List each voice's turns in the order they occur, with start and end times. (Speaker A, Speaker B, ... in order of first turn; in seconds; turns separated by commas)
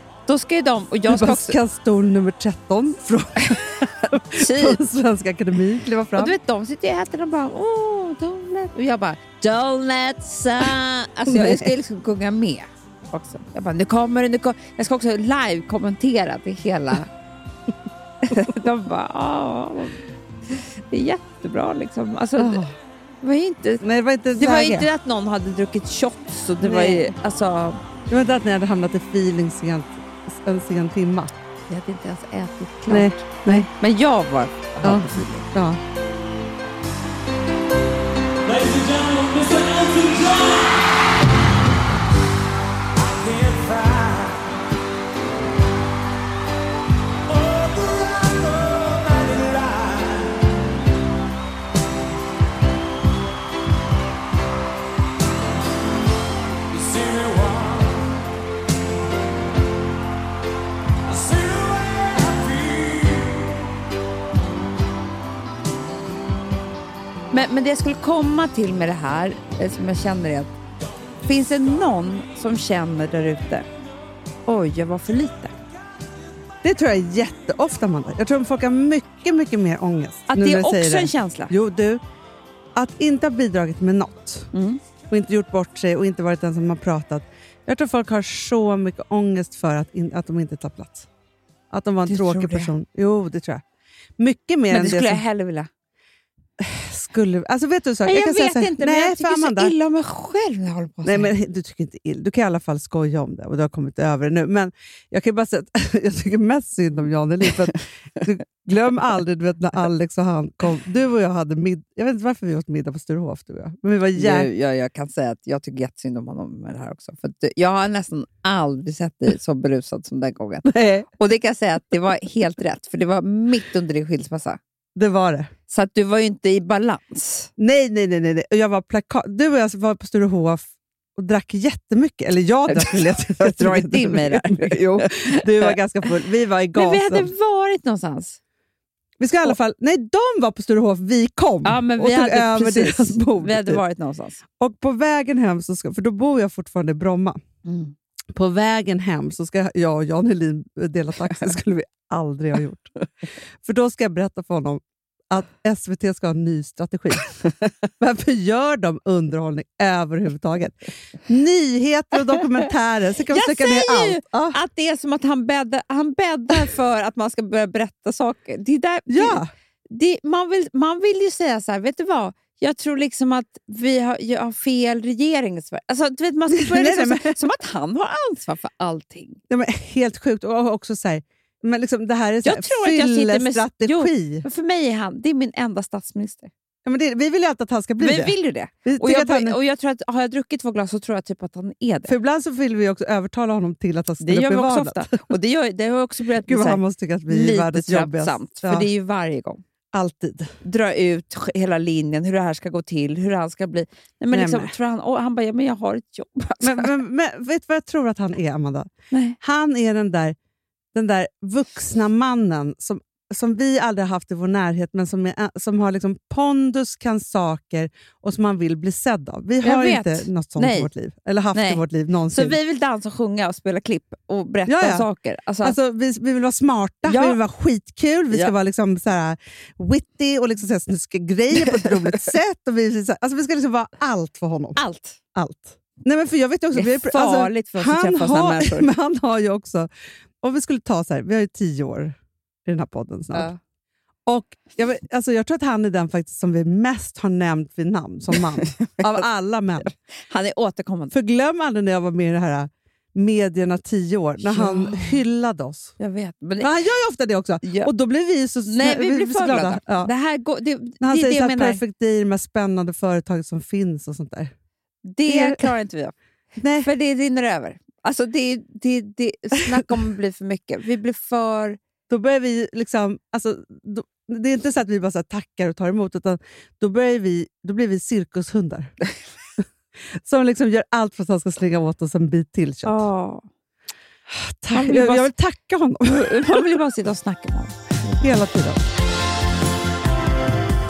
Speaker A: 0.3-1.6, Speaker B: 1.1-6.3, Speaker A: 4.3-4.8, Speaker A: 6.2-17.1, Speaker B: 11.3-11.7, Speaker A: 18.2-22.6, Speaker B: 22.4-22.8, Speaker A: 23.2-23.8, Speaker B: 23.8-24.9, Speaker A: 24.4-27.8, Speaker B: 26.6-27.1, Speaker B: 28.1-31.4, Speaker A: 31.7-35.5, Speaker B: 32.9-33.7, Speaker B: 34.8-35.8, Speaker C: 38.5-40.8, Speaker C: 43.0-44.5, Speaker C: 47.3-50.5, Speaker C: 56.7-58.1, Speaker C: 61.1-63.4, Speaker A: 67.3-70.5, Speaker A: 71.3-73.7, Speaker A: 74.5-75.5, Speaker B: 76.6-82.0, Speaker A: 80.3-81.5, Speaker B: 82.8-84.5, Speaker A: 84.5-84.8, Speaker B: 85.1-91.1, Speaker B: 91.7-93.6, Speaker A: 92.1-92.7, Speaker B: 94.2-95.2, Speaker A: 94.7-95.7, Speaker B: 96.6-99.8, Speaker A: 98.0-101.3, Speaker B: 101.0-114.5, Speaker A: 114.2-124.6, Speaker B: 120.7-121.1, Speaker B: 125.0-125.5, Speaker A: 125.7-127.5, Speaker B: 127.6-137.3, Speaker A: 132.7-135.8, Speaker A: 136.8-138.4, Speaker B: 139.2-143.8, Speaker A: 141.7-144.4, Speaker B: 144.6-147.4, Speaker A: 147.7-147.9, Speaker B: 148.3-152.9, Speaker B: 153.6-157.3, Speaker B: 158.0-164.6, Speaker A: 163.3-179.4, Speaker B: 169.1-169.5, Speaker B: 176.5-177.4, Speaker B: 179.5-184.5, Speaker A: 182.4-186.5, Speaker B: 186.8-189.6, Speaker A: 188.0-192.1, Speaker B: 192.1-195.3, Speaker A: 194.2-199.6, Speaker B: 196.4-198.9, Speaker B: 199.9-200.5, Speaker A: 200.6-207.0, Speaker B: 204.3-204.7, Speaker B: 206.6-208.9, Speaker A: 209.1-209.4, Speaker B: 209.4-210.4, Speaker B: 210.9-222.6, Speaker A: 219.6-220.9, Speaker A: 221.5-225.8, Speaker B: 224.7-225.1, Speaker B: 225.6-234.8, Speaker A: 227.1-227.4, Speaker A: 234.8-235.2, Speaker B: 235.3-239.9, Speaker A: 236.7-238.9, Speaker B: 240.4-243.5, Speaker A: 243.3-243.6, Speaker B: 244.3-249.9, Speaker A: 248.6-249.2, Speaker A: 249.8-251.1, Speaker B: 251.1-255.9, Speaker A: 254.4-255.2, Speaker A: 256.0-256.7, Speaker B: 256.6-260.1, Speaker A: 257.6-257.9, Speaker A: 258.7-261.8, Speaker B: 261.0-264.5, Speaker A: 265.1-266.1, Speaker B: 265.3-265.7, Speaker B: 266.6-266.9, Speaker A: 266.8-271.8, Speaker B: 272.1-278.9, Speaker B: 280.1-283.1, Speaker A: 282.9-283.4, Speaker B: 284.3-286.7, Speaker A: 284.7-285.3, Speaker A: 286.1-288.2, Speaker B: 288.2-288.8